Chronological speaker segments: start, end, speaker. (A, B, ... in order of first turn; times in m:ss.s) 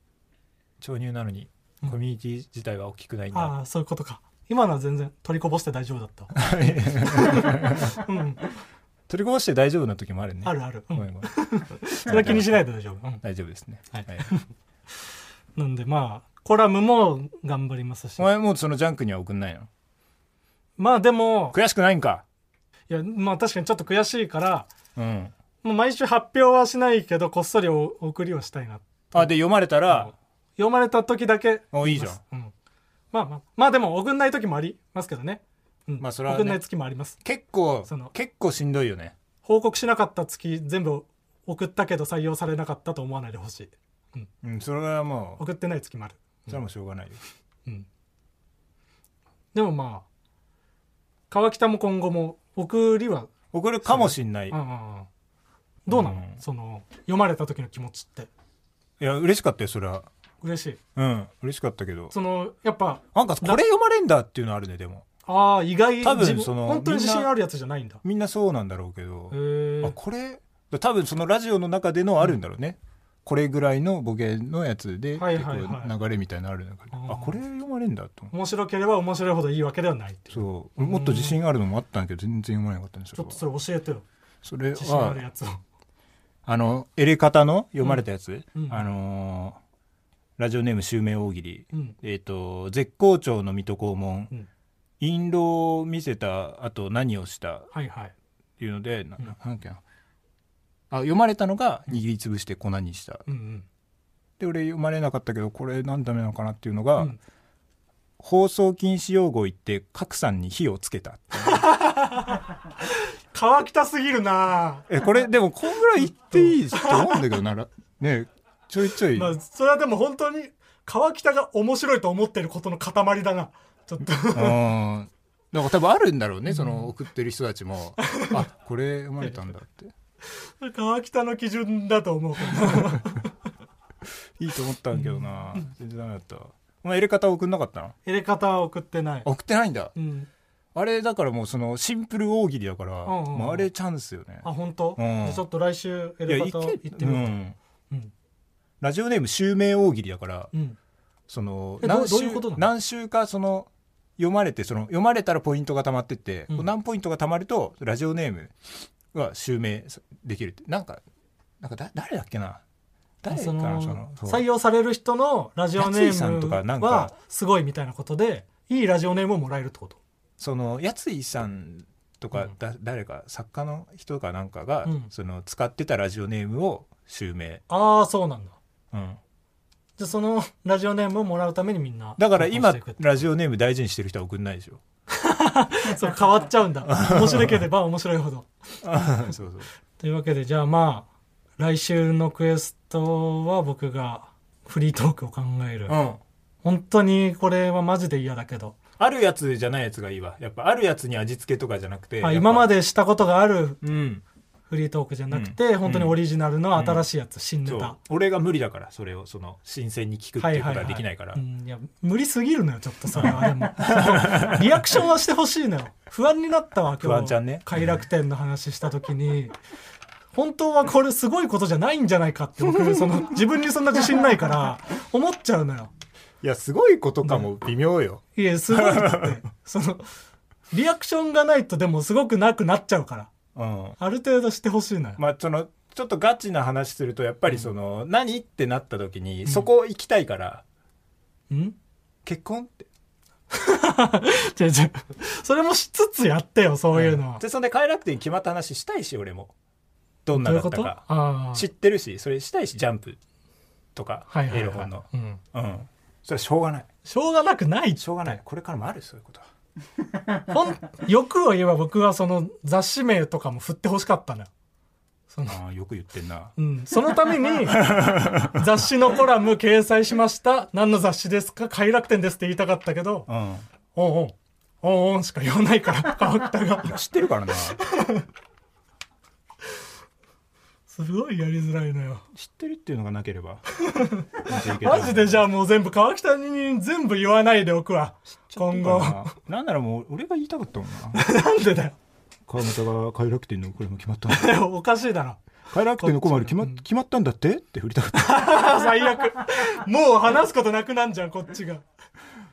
0:00.8-0:03.5 A
0:03.3-0:08.5 B
0:06.4-0:08.0 A
0:09.1-0:11.3 A
0:10.4-0:13.2 B
0:12.1-0:12.6 A
0:13.2-0:14.3 A
0:13.9-0:18.3 B
0:18.2-0:19.7 A
0:20.8-0:21.6 B
0:21.5-0:22.2 A
0:22.9-0:24.7 B
0:25.0-0:25.3 A
0:25.6-0:29.4 B
0:29.1-0:30.1 A
0:29.9-0:32.5 B
0:31.7-0:32.2 A
0:33.1-0:37.2 B
0:36.0-0:36.6 A
0:37.2-0:39.1 A
0:37.9-0:38.1 B
0:39.4-0:44.3 B
0:44.4-0:45.4 A
0:45.4-0:46.6 B
0:46.5-0:47.2 A
0:49.5-0:50.0 B
0:51.3-0:53.3 B
0:53.5-0:54.6 A
0:53.8-0:55.1 B
0:55.9-0:58.3 B
0:55.9-0:56.4 A
0:59.0-1:00.1 A
1:00.4-1:00.8 B
1:01.0-1:02.1 A
1:02.1-1:03.6 B
1:03.2-1:05.0 A
1:05.3-1:08.0 B
1:06.0-1:07.3 A
1:08.0-1:18.3 A
1:09.3-1:10.0 B
1:15.2-1:15.9 B
1:16.9-1:17.4 B
1:18.3-1:21.4 B
1:20.3-1:23.4 A
1:23.2-1:24.0 B
1:24.4-1:25.2 A
1:24.8-1:25.6 B
1:26.4-1:29.6 A
1:28.6-1:28.8 B
1:30.4-1:34.3 A
1:35.0-1:37.7 A
1:37.7-1:38.1 B
1:38.6-1:39.8 A
1:40.9-1:43.2 A
1:43.3-1:43.7 B
1:44.4-1:47.1 A
1:48.2-1:51.7 A
1:51.4-1:54.9 B
1:54.9-1:59.3 A
1:56.1-1:57.2 B
1:59.1-2:04.6 B
2:04.3-2:09.9 A
2:06.5-2:06.9 B
2:08.0-2:08.4 B
2:09.2-2:09.5 B
2:10.3-2:13.3 B
2:14.4-2:18.0 A
2:14.9-2:15.6 B
2:18.0-2:19.3 B
2:19.2-2:19.9 A
2:20.0-2:20.3 B
2:20.8-2:25.4 A
2:23.0-2:23.7 B
2:24.4-2:27.3 B
2:26.3-2:27.6 A
2:28.8-2:30.5 A
2:31.3-2:38.5 A
2:31.8-2:32.7 B
2:39.1-2:41.0 A
2:41.6-2:42.6 A
2:43.2-2:44.4 A
2:43.3-2:50.0 B
2:45.8-2:47.1 A
2:50.4-2:57.6 A
2:54.8-2:55.1 B
2:57.7-2:58.6 B
2:58.9-2:59.2 A
3:00.0-3:03.2 B
3:02.2-3:04.8 A
3:05.1-3:08.5 B
3:06.9-3:07.6 A
3:08.8-3:09.7 A
3:10.0-3:11.1 B
3:11.6-3:16.0 B
3:15.9-3:16.2 A
3:16.6-3:18.8 B
3:19.0-3:22.7 A
3:22.2-3:23.8 B
3:23.8-3:24.2 A
3:24.7-3:28.0 B
3:25.3-3:26.2 A
3:26.8-3:27.0 A
3:27.6-3:31.4 A
3:30.4-3:39.6 B
3:33.2-3:34.7 A
3:37.0-3:38.0 A
3:40.3-3:45.9 B
3:46.4-3:48.2 A
3:48.4-3:50.1 B
3:48.7-3:49.4 A
3:50.7-3:53.3 B
3:53.6-3:54.0 A
3:54.0-3:55.2 B
3:55.2-4:00.6 A
4:01.5-4:01.8 B
4:02.2-4:02.9 A
4:03.5-4:07.4 B
4:06.9-4:09.5 A
4:10.3-4:13.2 A
4:10.3-4:11.7 B
4:14.0-4:16.9 A
4:14.3-4:15.4 B
4:17.1-4:18.0 B
4:18.0-4:19.5 A
4:20.4-4:24.5 B
4:25.3-4:25.6 B
4:25.5-4:26.5 A
4:26.6-4:33.3 B
4:27.7-4:28.7 A
4:33.3-4:33.6 A
4:34.0-4:37.0 B
4:36.8-4:37.8 A
4:37.8-4:38.3 B
4:40.9-4:42.3 B
4:42.3-4:43.6 A
4:43.8-4:49.4 B
4:44.4-4:45.4 A
4:48.5-4:51.2 A
4:51.1-4:52.0 B
4:52.5-4:54.6 A
4:54.3-4:55.4 B
4:55.7-4:58.8 A
4:56.0-4:56.8 B
4:58.2-5:01.8 B